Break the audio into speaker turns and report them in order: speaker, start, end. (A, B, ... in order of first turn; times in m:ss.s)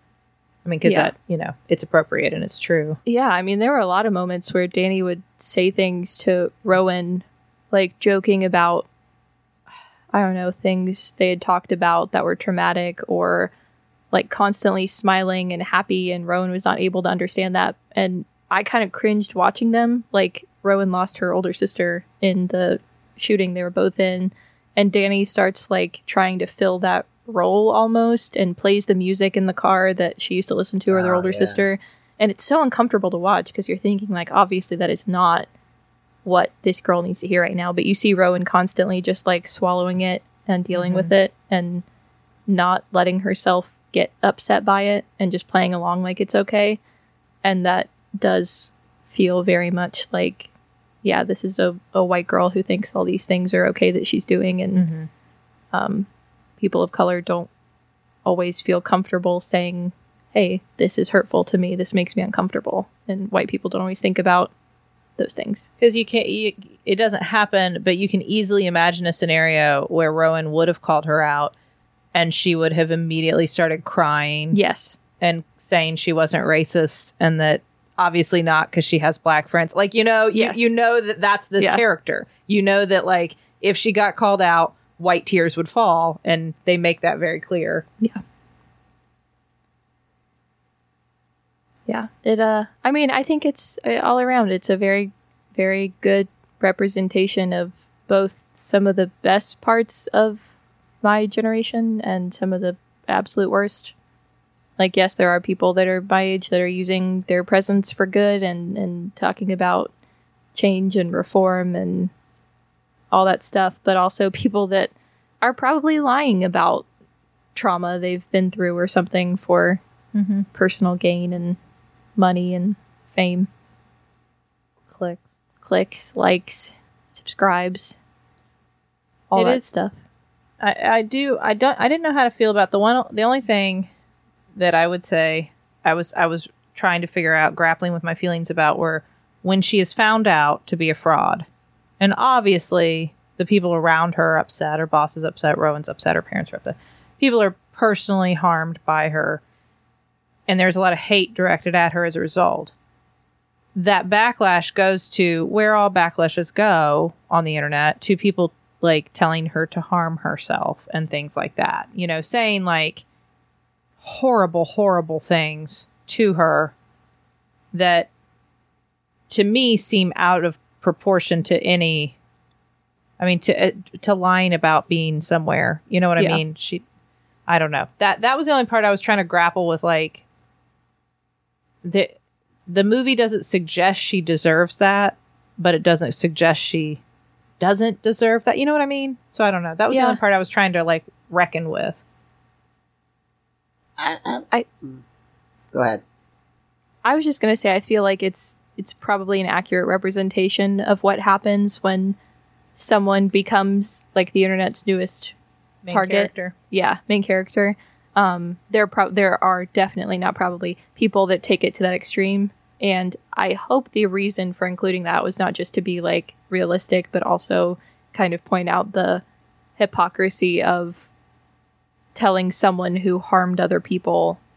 0:00.6-0:03.0 A
0:00.8-0:01.1 B
0:03.0-0:08.9 B
0:10.1-0:13.5 B
0:14.1-0:35.5 B
0:30.9-0:31.6 C
0:36.2-0:41.8 B
0:40.8-0:41.1 A
0:42.5-0:46.8 B
0:47.4-0:50.5 B
0:51.0-0:54.9 B
0:54.8-0:55.1 A
0:55.7-0:56.1 B
0:56.6-0:57.5 B
0:58.2-1:04.5 B
1:05.2-1:05.7 B
1:05.8-1:11.5 A
1:12.1-1:14.6 A
1:14.5-1:15.0 B
1:15.2-1:27.9 A
1:20.3-1:20.7 B
1:31.9-1:40.4 B
1:41.0-1:43.9 B
1:44.8-1:49.9 B
1:50.5-1:52.1 B
1:53.1-1:56.9 B
1:57.5-1:59.8 B
2:00.1-2:00.4 A
2:00.5-2:01.6 B
2:02.2-2:03.5 B
2:04.9-2:05.3 A
2:05.6-2:08.0 B
2:09.3-2:10.0 B
2:09.3-2:09.6 A
2:10.6-2:13.9 A
2:14.6-2:21.4 A
2:22.0-2:29.4 A
2:30.5-2:32.7 A
2:33.7-2:43.0 A
2:44.0-2:46.7 A
2:47.7-2:48.1 A
2:49.3-2:52.2 A
2:53.2-2:56.8 A
2:57.5-3:00.2 A
3:01.8-3:02.1 A
3:02.7-3:07.0 A
3:07.6-3:12.0 A
3:09.9-3:10.2 B
3:14.0-3:15.0 C
3:15.7-3:16.0 C
3:17.0-3:22.2 B
3:22.8-3:25.3 B
3:25.8-3:26.5 A
3:25.9-3:39.2 B
3:39.8-3:41.1 B
3:42.1-3:44.4 B